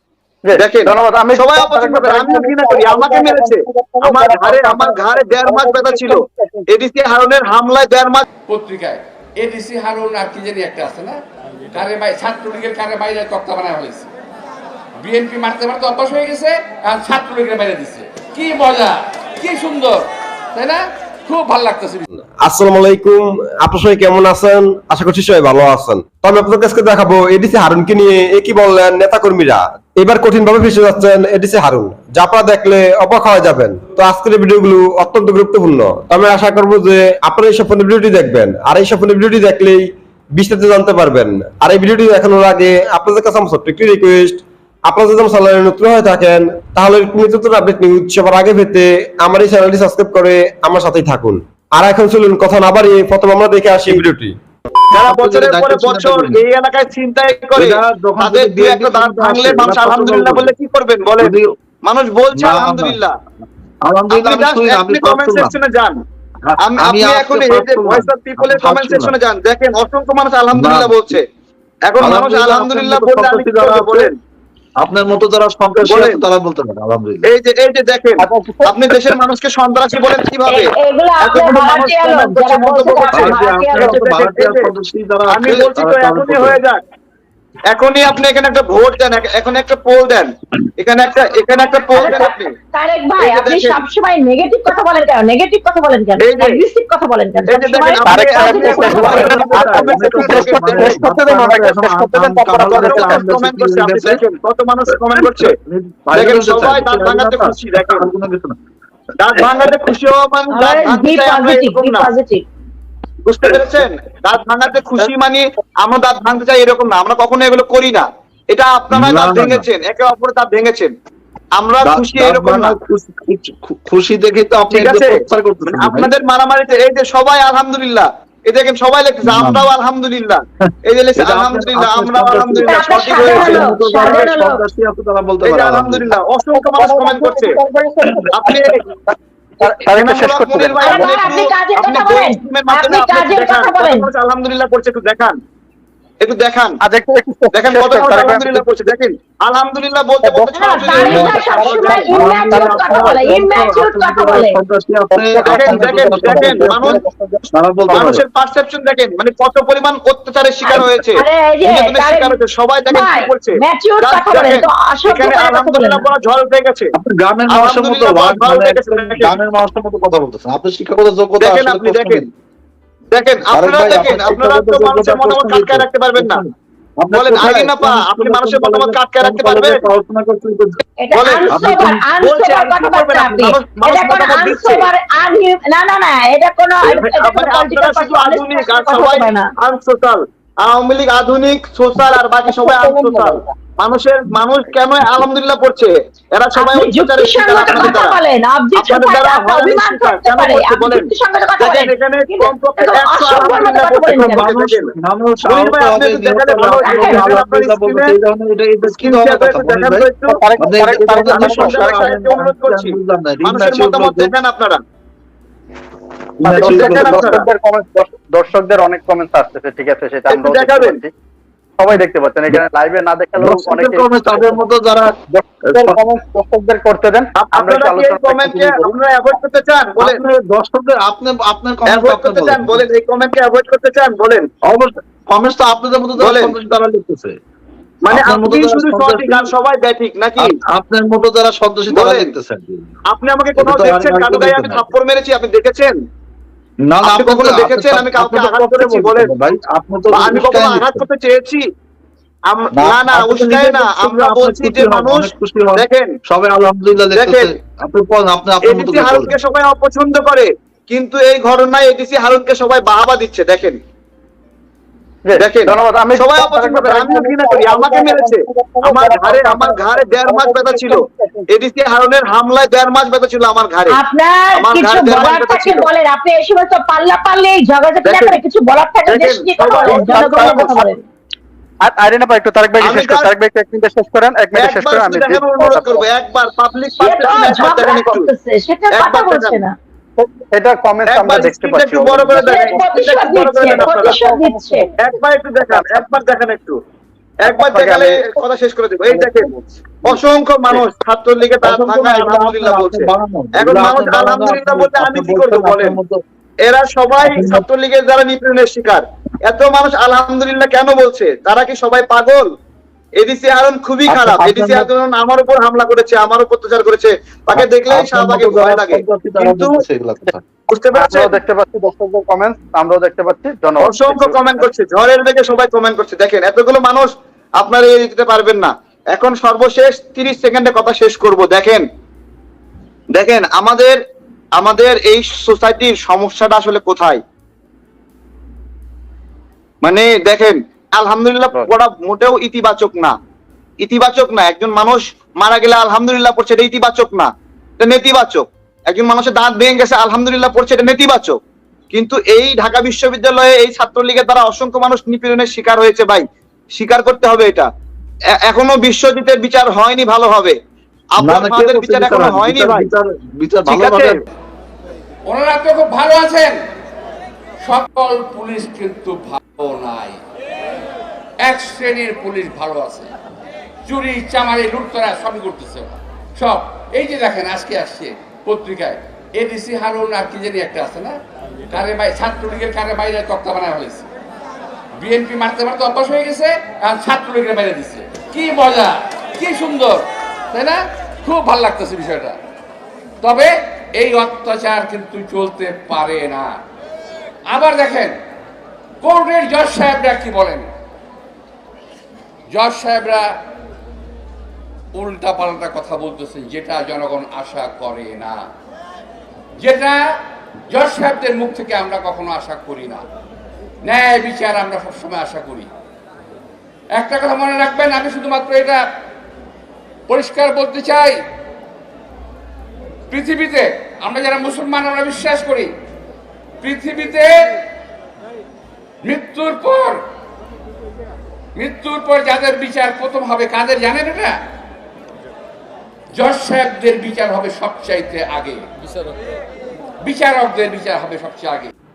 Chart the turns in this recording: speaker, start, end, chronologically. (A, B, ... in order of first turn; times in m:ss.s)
0:00.4-0:06.6 A
0:00.6-0:08.3 B
0:08.5-0:11.2 C
0:11.7-0:14.1 C
0:15.0-0:22.1 C
0:22.4-0:54.3 D
0:54.9-1:01.3 B
0:55.0-0:56.4 E
0:57.6-1:00.5 E
1:01.2-1:01.5 E
1:01.8-1:03.1 B
1:02.4-1:03.0 E
1:03.8-1:05.5 E
1:04.1-1:06.0 B
1:06.4-1:09.1 E
1:06.6-1:11.2 B
1:10.6-1:11.2 E
1:11.9-1:14.1 B
1:12.0-1:14.1 E
1:14.8-1:17.3 E
1:15.8-1:16.2 B
1:17.3-1:20.7 B
1:18.2-1:18.7 A
1:20.5-1:24.0 F
1:21.2-1:24.7 B
1:23.1-1:26.6 E
1:25.3-1:26.8 B
1:27.7-1:32.5 B
1:31.9-1:39.4 F
1:33.2-1:33.8 B
1:36.2-1:36.6 B
1:37.5-1:41.1 B
1:38.0-1:43.2 A
1:38.6-1:44.2 E
1:42.7-1:45.6 B
1:45.2-1:48.6 E
1:46.1-1:48.1 B
1:49.2-1:52.1 B
1:50.5-1:52.4 F
1:53.3-2:00.9 B
1:58.9-1:59.6 E
2:01.6-2:02.7 B
2:01.8-2:06.1 E
2:04.7-2:05.2 B
2:05.7-2:14.3 B
2:09.2-2:09.7 E
2:11.2-2:16.1 E
2:12.6-2:14.6 F
2:15.4-2:17.6 B
2:16.6-2:18.8 A
2:18.4-2:18.8 B
2:19.6-2:21.4 A
2:19.8-2:25.4 B
2:20.8-2:24.1 F
2:26.2-2:26.8 B
2:26.8-2:28.7 A
2:27.5-2:32.3 B
2:30.2-2:33.3 A
2:30.5-2:34.6 F
2:30.9-2:37.0 E
2:35.1-2:38.2 A
2:35.4-2:37.0 B
2:37.5-2:38.2 E
2:37.9-2:46.9 B
2:40.6-2:46.1 F
2:47.0-2:52.2 E
2:47.5-2:49.4 B
2:51.4-2:52.2 B
2:53.1-2:56.4 B
2:53.5-3:00.8 E
2:57.1-2:59.8 B
3:01.0-3:09.5 F
3:01.1-3:04.9 B
3:01.5-3:02.0 E
3:06.8-3:18.2 B
3:12.5-3:13.4 A
3:16.6-3:24.5 F
3:18.8-3:24.9 B
3:24.1-3:30.1 E
3:25.5-3:28.1 B
3:26.7-3:27.3 F
3:28.9-3:34.8 B
3:30.3-3:32.0 A
3:30.6-3:34.3 E
3:36.4-3:37.4 E
3:36.4-3:41.1 A
3:36.5-3:37.5 B
3:40.3-3:41.0 B
3:41.8-3:44.6 A
3:43.4-3:45.1 E
3:45.3-3:48.9 A
3:47.4-3:50.2 B
3:50.0-3:52.8 E
3:51.9-3:54.5 B
3:54.7-3:57.4 E
3:56.2-3:56.5 B
3:58.1-4:00.5 B
3:58.1-3:59.5 E
4:00.4-4:02.9 E
4:01.9-4:02.3 B
4:03.1-4:06.0 B
4:03.6-4:04.9 E
4:06.9-4:11.0 E
4:07.0-4:09.3 B
4:10.1-4:11.6 B
4:12.5-4:16.1 B
4:12.7-4:19.4 E
4:17.1-4:17.5 B
4:18.6-4:23.8 B
4:25.2-4:31.5 A
4:25.4-4:31.0 B
4:31.5-4:34.0 B
4:33.9-4:41.0 F
4:34.6-4:35.9 B
4:38.0-4:38.4 B
4:39.0-4:40.7 B
4:39.6-4:41.0 A
4:41.8-4:46.0 A
4:42.8-4:43.3 B
4:44.6-4:48.3 B
4:47.0-4:49.7 F
4:48.9-4:49.6 B
4:50.2-4:52.8 A
4:51.1-4:54.2 B
4:52.3-4:54.9 F
4:53.4-4:54.9 A
4:55.0-4:56.8 B
4:55.7-4:56.0 A
4:57.4-5:06.0 B
4:57.5-4:58.4 A
4:59.2-4:59.5 A
5:01.6-5:06.2 E
5:06.6-5:12.5 B
5:07.2-5:07.6 E
5:13.2-5:19.8 B
5:14.1-5:14.9 E
5:17.5-5:20.4 E
5:20.7-5:21.3 B
5:21.0-5:24.7 A
5:23.8-5:31.8 B
5:33.1-5:34.0 B
5:34.6-5:37.2 B
5:39.8-5:43.2 B
5:43.8-5:51.4 B
5:51.9-5:56.2 B
5:56.8-5:57.7 B
5:58.4-6:00.6 B
6:01.2-6:02.9 B
6:01.2-6:04.2 E
6:03.7-6:04.1 B
6:05.3-6:06.6 C
6:07.6-6:10.2 C
6:11.4-6:13.1 C
6:13.9-6:21.2 C
6:21.7-6:24.1 C
6:25.0-6:32.4 C
6:33.2-6:36.6 C
6:37.5-6:38.2 C
6:39.0-6:40.7 C
6:42.5-6:43.4 C
6:45.0-6:48.5 C
6:49.6-6:50.0 C
6:50.7-6:53.0 C
6:53.8-6:55.7 C
6:57.0-6:58.8 C
7:00.1-7:01.2 C
7:03.1-7:05.7 C
7:06.6-7:07.5 C
7:09.0-7:10.0 C
7:11.6-7:14.4 C
7:16.1-7:18.6 C
7:20.0-7:21.7 C